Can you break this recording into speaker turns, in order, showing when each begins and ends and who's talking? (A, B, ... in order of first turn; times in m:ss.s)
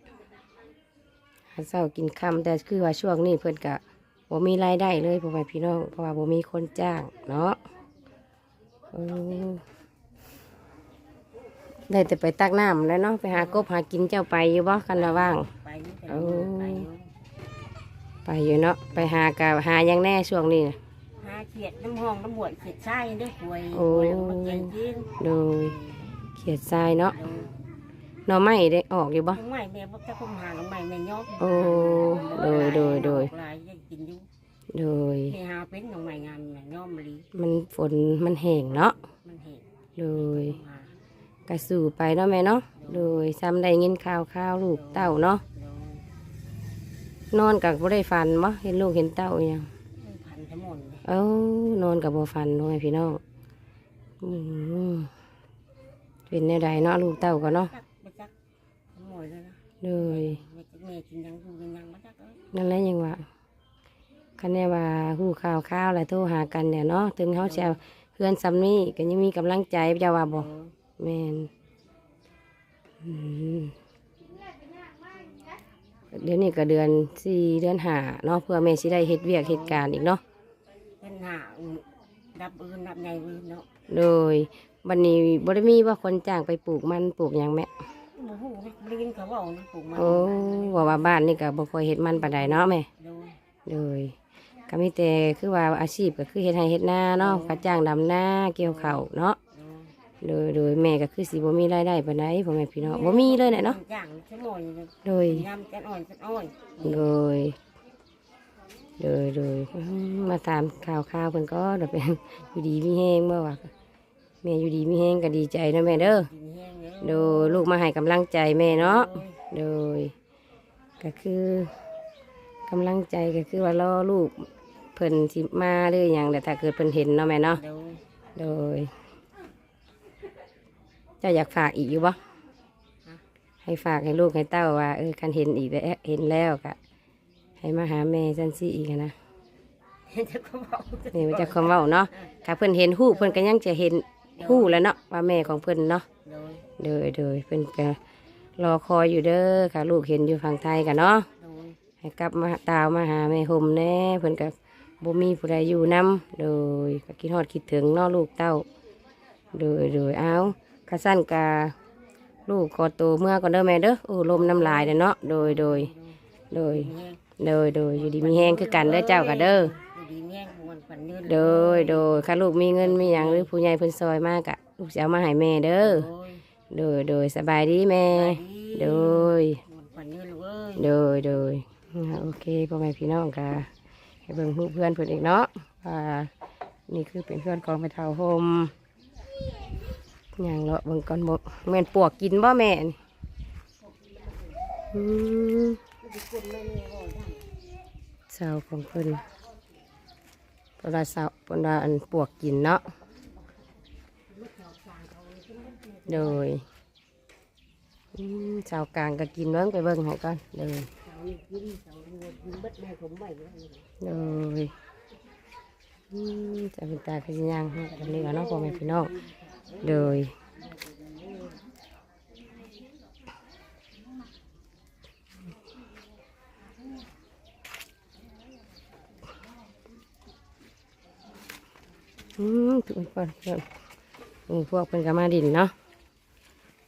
0:01.5-0:07.6 A
0:08.9-0:09.6 A
0:11.9-0:15.5 A
0:13.3-0:13.6 B
0:14.9-0:17.1 B
0:16.1-0:16.9 A
0:18.2-0:20.8 A
0:21.2-0:26.0 B
0:23.7-0:25.7 A
0:26.4-0:27.2 A
0:27.1-0:27.5 B
0:28.3-0:29.4 A
0:29.3-0:34.2 B
0:31.4-0:33.3 A
0:34.7-0:35.4 A
0:35.3-0:37.3 B
0:37.3-0:39.0 A
0:39.2-0:40.9 B
0:40.0-0:40.6 A
0:41.5-0:45.4 A
0:42.7-0:43.1 B
0:44.6-0:46.0 B
0:47.3-0:49.7 A
0:49.9-0:51.0 B
0:51.0-0:53.2 A
0:54.2-0:55.1 A
0:56.3-0:57.7 A
0:57.5-0:58.3 B
0:58.9-1:02.4 B
0:59.8-1:00.4 A
1:02.5-1:03.2 A
1:04.4-1:10.5 A
1:07.4-1:07.8 B
1:10.3-1:10.7 B
1:11.0-1:11.5 A
1:13.0-1:13.7 A
1:16.1-1:20.2 A
1:19.4-1:19.8 B
1:21.0-1:23.7 B
1:23.9-1:27.7 A
1:28.1-1:31.2 B
1:30.0-1:32.9 A
1:32.2-1:33.4 B
1:33.6-1:34.1 A
1:34.7-1:39.4 A
1:37.2-1:37.6 B
1:38.6-1:39.9 B
1:40.2-1:43.8 A
1:42.8-1:47.1 B
1:45.0-1:45.5 A
1:46.8-1:47.6 A
1:49.0-1:53.7 A
1:54.4-1:56.3 A
1:55.9-1:57.7 B
1:57.0-2:00.1 A
1:58.7-1:59.4 B
2:01.0-2:01.7 A
2:02.7-2:07.6 A
2:07.5-2:08.0 B
2:08.4-2:08.9 A
2:11.2-2:12.2 A
2:13.6-2:16.8 A
2:17.6-2:19.1 A
2:20.1-2:22.3 B
2:21.1-2:26.0 A
2:23.1-2:23.4 B
2:24.4-2:24.8 B
2:26.2-2:26.6 B
2:26.8-2:28.0 A
2:28.6-2:31.3 A
2:31.4-2:31.8 B
2:32.0-2:38.6 A
2:39.5-2:41.7 A
2:42.5-2:45.9 A
2:44.3-2:47.2 B
2:46.5-2:49.7 A
2:47.9-2:53.5 B
2:51.2-2:56.1 A
2:55.8-2:56.4 B
2:56.7-2:59.6 A
2:58.1-3:00.9 B
3:00.8-3:03.7 A
3:04.3-3:06.3 A
3:06.9-3:08.7 A
3:10.4-3:13.0 A
3:14.9-3:15.8 A
3:16.0-3:17.5 B
3:18.3-3:19.2 A
3:20.8-3:22.8 A
3:24.3-3:26.5 B
3:26.1-3:26.6 A
3:28.1-3:30.9 A
3:31.0-3:33.9 B
3:34.0-3:34.7 A
3:36.1-3:39.1 A
3:37.9-3:40.2 B
3:39.8-3:40.3 A
3:40.7-3:41.6 B
3:52.4-3:53.6 A
3:54.5-3:55.7 A